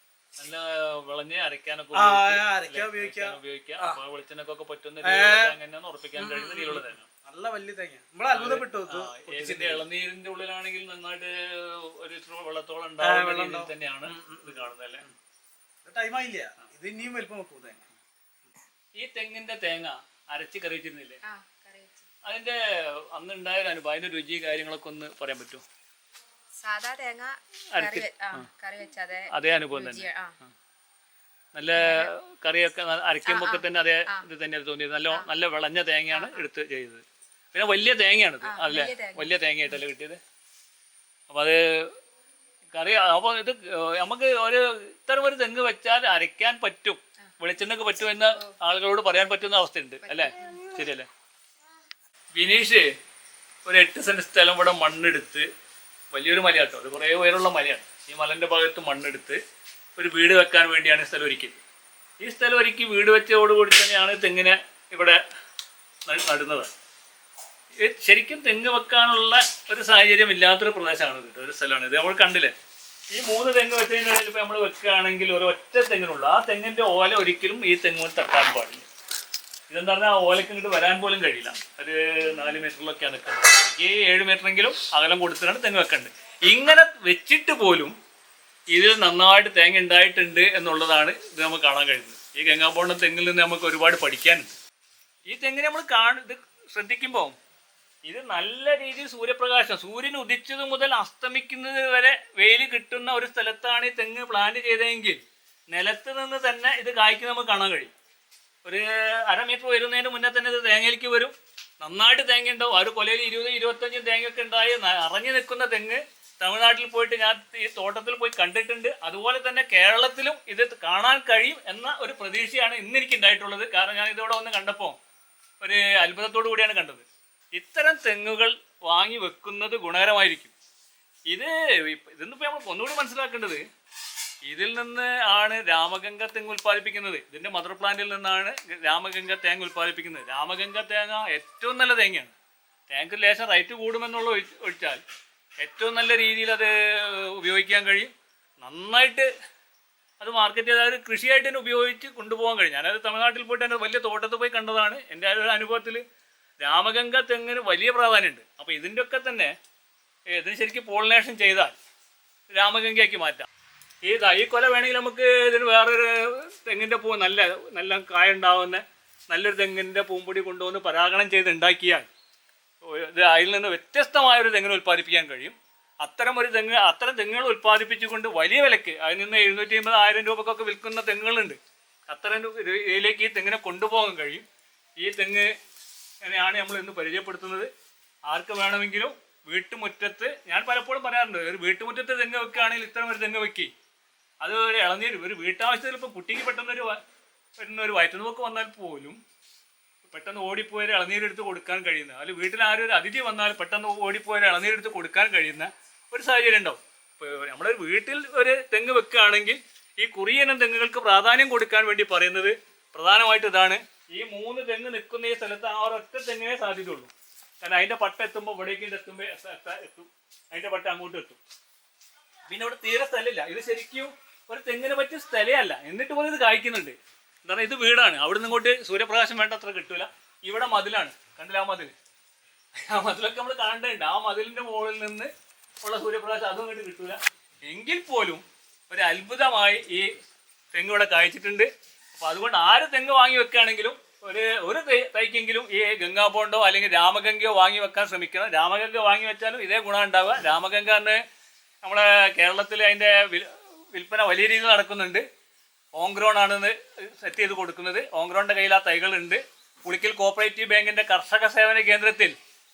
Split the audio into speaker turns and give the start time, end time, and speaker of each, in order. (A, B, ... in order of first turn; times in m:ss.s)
0:00.4-0:07.1 A
0:01.9-0:04.0 B
0:05.0-0:05.5 B
0:06.2-0:09.8 B
0:08.3-0:15.1 A
0:13.0-0:15.1 B
0:15.8-0:17.8 B
0:19.0-0:21.2 A
0:21.2-0:22.1 C
0:22.2-0:25.6 A
0:26.6-0:30.4 C
0:27.7-0:28.5 A
0:29.3-0:30.5 A
0:31.5-0:40.2 A
0:31.8-0:32.1 C
0:33.2-0:34.3 C
0:36.1-0:36.4 C
0:38.4-0:39.8 C
0:41.3-0:41.9 A
0:42.7-0:51.1 A
0:50.0-0:50.7 C
0:52.3-0:52.9 A
0:53.6-0:55.5 A
0:56.1-0:59.4 A
1:00.0-1:01.6 A
1:02.2-1:05.2 A
1:06.1-1:06.7 A
1:07.8-1:12.5 A
1:13.1-1:18.9 A
1:19.7-1:27.9 A
1:28.7-1:34.5 A
1:35.3-1:37.4 A
1:38.0-1:47.9 A
1:48.6-2:05.0 A
2:05.6-2:10.5 A
2:11.3-2:13.6 A
2:14.4-2:22.3 A
2:22.9-2:25.0 A
2:25.6-2:29.3 A
2:30.2-2:36.0 A
2:36.6-2:39.6 A
2:40.3-2:41.8 A
2:42.5-2:43.5 A
2:44.0-2:52.1 A
2:52.8-3:01.6 A
3:02.1-3:04.4 A
3:05.0-3:05.5 A
3:06.2-3:07.7 A
3:08.3-3:13.7 A
3:14.4-3:17.0 A
3:17.6-3:19.2 A
3:20.1-3:41.4 A
3:42.5-3:51.9 A
3:52.8-3:55.3 A
3:55.8-4:00.1 A
4:00.7-4:11.2 A
4:11.8-4:15.2 A
4:16.0-4:22.3 A